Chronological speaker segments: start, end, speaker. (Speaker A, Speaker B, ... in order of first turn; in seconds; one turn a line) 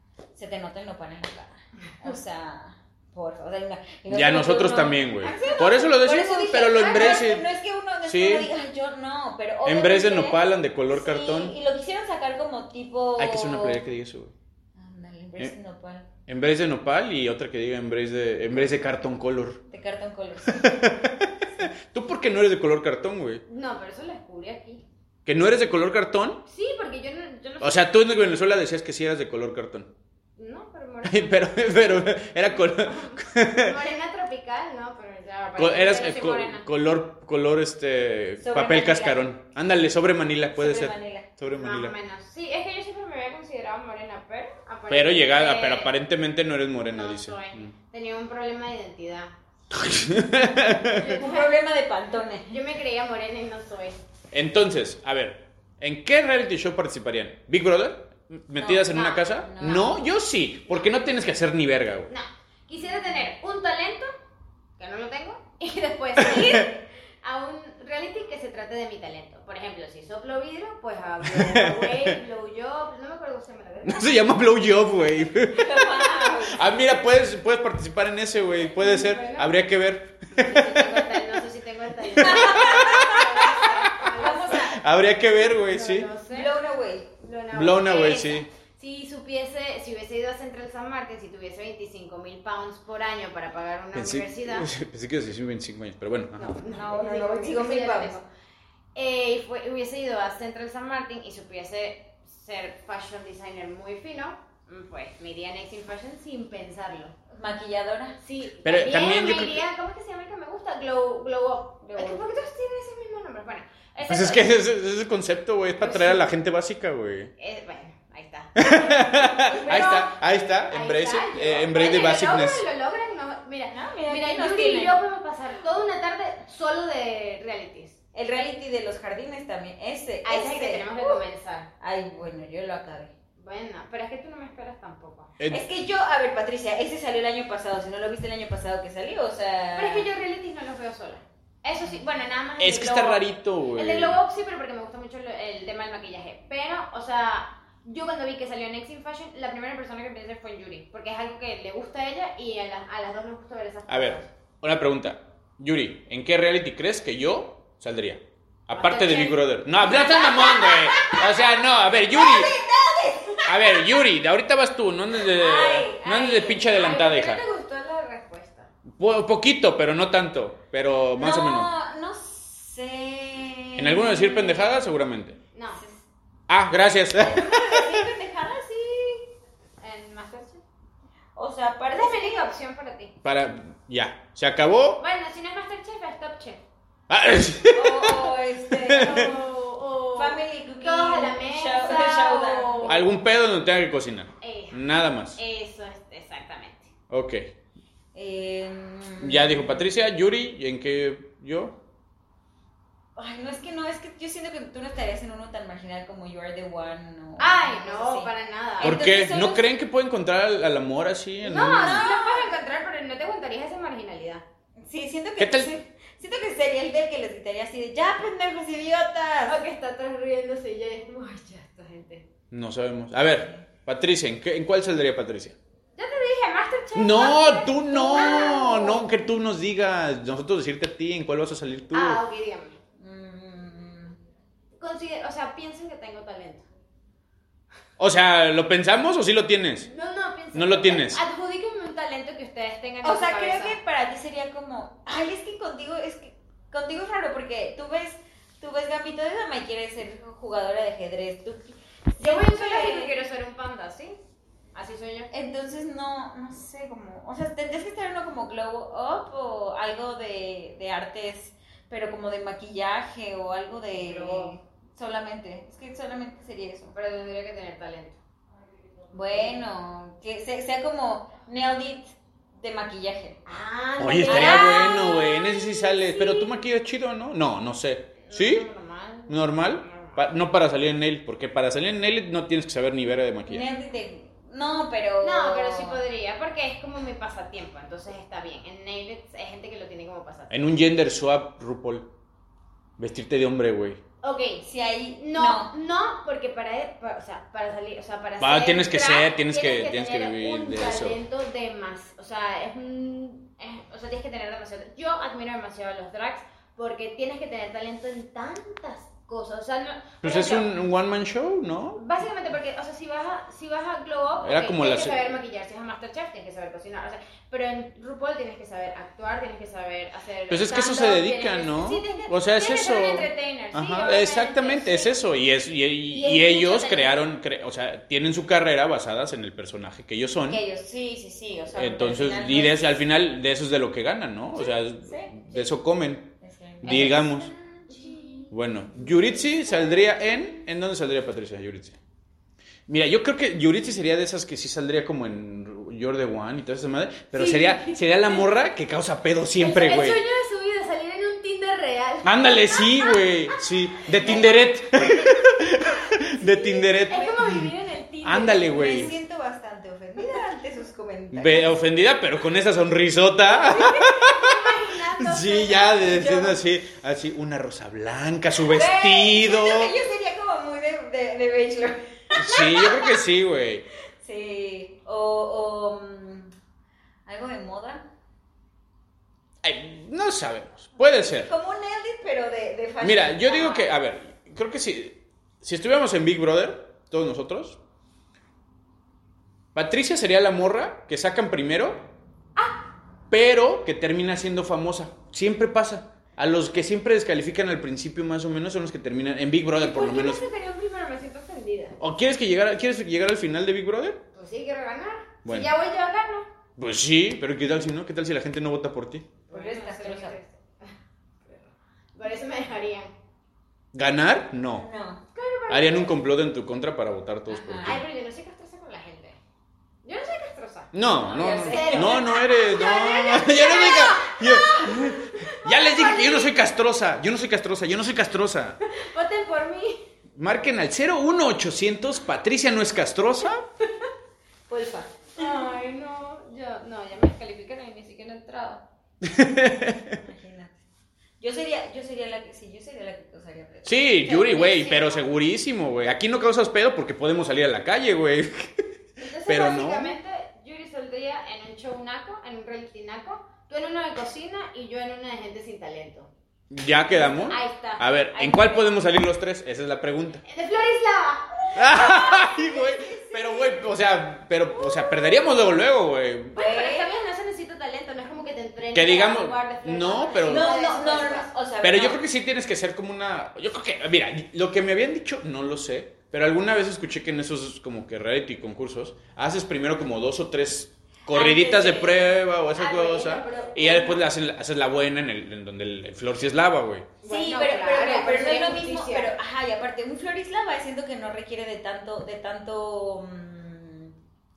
Speaker A: 0.3-13.8
Speaker B: 4.1-7.5
Speaker C: 5.2-5.8
Speaker B: 8.1-8.5
Speaker B: 9.6-11.6
Speaker B: 13.2-14.3
Speaker A: 14.8-16.1
Speaker B: 16.3-19.6
Speaker A: 19.7-20.8
Speaker B: 20.4-23.4
Speaker C: 23.5-24.8
Speaker B: 25.2-26.4
Speaker C: 26.5-27.9
Speaker B: 27.6-29.9
Speaker C: 30.4-36.6
Speaker B: 31.0-33.8
Speaker B: 35.6-41.9
Speaker A: 38.4-39.3
Speaker A: 40.5-41.3
Speaker C: 41.5-45.9
Speaker B: 44.9-47.7
Speaker C: 46.9-49.3
Speaker B: 49.7-51.2
Speaker C: 50.9-51.5
Speaker A: 51.1-52.6
Speaker C: 52.5-54.0
Speaker B: 54.3-62.1
Speaker A: 58.6-60.0
Speaker C: 58.7-59.3
Speaker C: 62.1-64.1
Speaker C: 64.8-74.2
Speaker B: 66.2-66.7
Speaker B: 71.2-72.2
Speaker B: 73.8-81.2
Speaker A: 75.5-76.7
Speaker C: 78.5-79.5
Speaker C: 80.3-84.8
Speaker A: 82.2-84.8
Speaker B: 82.2-83.1
Speaker B: 84.6-86.1
Speaker C: 85.4-86.5
Speaker A: 86.3-87.1
Speaker C: 87.2-94.7
Speaker B: 87.5-88.5
Speaker B: 93.9-96.6
Speaker C: 96.4-98.2
Speaker A: 96.7-98.2
Speaker C: 98.9-107.1
Speaker A: 107.3-108.2
Speaker C: 108.2-114.5
Speaker B: 108.6-109.6
Speaker A: 111.8-112.2
Speaker B: 114.0-117.3
Speaker C: 115.8-116.3
Speaker C: 117.4-128.0
Speaker B: 118.6-122.6
Speaker A: 119.5-119.8
Speaker A: 123.7-125.0
Speaker A: 128.1-131.2
Speaker C: 130.2-131.7
Speaker A: 131.8-133.1
Speaker C: 133.4-135.3
Speaker B: 135.4-135.7
Speaker A: 135.5-140.1
Speaker C: 139.8-154.3
Speaker B: 142.6-144.2
Speaker B: 153.9-162.6
Speaker C: 158.7-161.1
Speaker A: 160.1-161.2
Speaker A: 162.1-163.9
Speaker B: 163.4-167.4
Speaker A: 165.3-166.7
Speaker C: 166.6-168.7
Speaker B: 169.0-171.7
Speaker A: 171.2-174.9
Speaker B: 173.8-175.4
Speaker C: 175.5-175.8
Speaker A: 175.8-176.0
Speaker B: 176.5-178.1
Speaker A: 177.2-179.3
Speaker C: 179.8-180.6
Speaker A: 181.3-182.5
Speaker C: 181.9-183.1
Speaker B: 183.2-185.0
Speaker C: 185.0-186.6
Speaker B: 187.1-189.3
Speaker A: 187.7-189.4
Speaker C: 188.9-193.0
Speaker A: 190.2-192.9
Speaker B: 192.8-195.4
Speaker C: 194.4-194.8
Speaker C: 195.3-196.9
Speaker B: 197.1-197.4
Speaker A: 198.1-199.8
Speaker B: 199.2-201.8
Speaker A: 203.2-209.6
Speaker C: 207.4-208.9
Speaker B: 208.8-212.0
Speaker C: 211.4-214.4
Speaker A: 211.8-212.5
Speaker A: 214.8-219.6
Speaker B: 215.4-215.7
Speaker C: 219.5-222.3
Speaker B: 222.5-225.6
Speaker C: 225.9-229.0
Speaker B: 226.9-232.2
Speaker C: 231.9-232.8
Speaker A: 233.0-234.2
Speaker C: 234.8-236.6
Speaker B: 238.0-239.9
Speaker C: 239.8-243.8
Speaker B: 240.5-241.2
Speaker A: 243.0-253.1
Speaker C: 252.2-254.2
Speaker C: 254.7-255.3
Speaker A: 255.3-266.9
Speaker C: 263.9-264.5
Speaker C: 266.9-268.2
Speaker A: 269.1-273.4
Speaker C: 273.4-276.6
Speaker B: 274.0-278.7
Speaker A: 274.2-275.1
Speaker C: 278.2-280.2
Speaker B: 279.3-283.7
Speaker A: 283.5-286.0
Speaker C: 285.2-290.5
Speaker B: 290.5-292.1
Speaker B: 293.0-294.0
Speaker C: 294.2-294.6
Speaker A: 294.6-295.7
Speaker C: 295.2-310.7
Speaker B: 298.4-301.2
Speaker B: 310.2-312.0
Speaker C: 311.9-325.1
Speaker B: 314.4-315.3
Speaker B: 320.5-330.6
Speaker C: 326.1-327.2
Speaker A: 330.5-332.8
Speaker B: 331.7-337.5
Speaker A: 334.6-335.6
Speaker A: 336.4-338.4
Speaker C: 337.9-338.5
Speaker B: 338.5-342.0
Speaker C: 339.4-340.1
Speaker B: 342.9-350.2
Speaker C: 347.3-348.6
Speaker C: 349.6-354.6
Speaker B: 352.2-359.1
Speaker C: 356.3-359.1
Speaker A: 358.6-361.7
Speaker B: 361.3-369.9
Speaker C: 363.6-366.5
Speaker A: 368.6-373.2
Speaker B: 372.3-373.8
Speaker A: 374.2-376.5
Speaker A: 377.2-378.0
Speaker B: 379.6-381.5
Speaker A: 381.4-383.9
Speaker B: 383.0-387.8
Speaker B: 389.7-392.1
Speaker C: 392.6-392.8
Speaker B: 393.3-400.4
Speaker C: 399.8-402.0
Speaker B: 402.0-404.2
Speaker C: 404.3-406.5
Speaker B: 405.4-405.7
Speaker B: 406.8-409.3
Speaker C: 409.5-410.9
Speaker A: 409.5-410.4
Speaker C: 411.4-413.1
Speaker B: 413.9-414.9
Speaker A: 414.8-415.2
Speaker C: 415.3-416.1
Speaker B: 415.7-418.0
Speaker A: 417.5-418.0
Speaker C: 417.8-419.4
Speaker C: 420.0-426.5
Speaker B: 420.9-428.8
Speaker A: 421.3-422.2
Speaker C: 428.9-430.0
Speaker B: 430.4-433.6
Speaker A: 434.7-435.6
Speaker C: 435.4-438.8
Speaker B: 439.2-440.2
Speaker A: 440.1-440.8
Speaker A: 441.4-445.1
Speaker B: 443.8-450.2
Speaker C: 444.3-445.2
Speaker C: 449.2-456.3
Speaker B: 456.7-460.4
Speaker C: 457.3-458.1
Speaker A: 458.3-459.0
Speaker C: 460.4-461.8
Speaker B: 461.7-466.6
Speaker A: 461.8-463.7
Speaker A: 466.5-467.1
Speaker C: 466.6-471.5
Speaker B: 468.9-470.8
Speaker A: 470.4-472.2
Speaker B: 471.8-487.1
Speaker A: 481.3-482.3
Speaker C: 482.7-484.2
Speaker C: 487.2-489.3
Speaker A: 487.2-494.1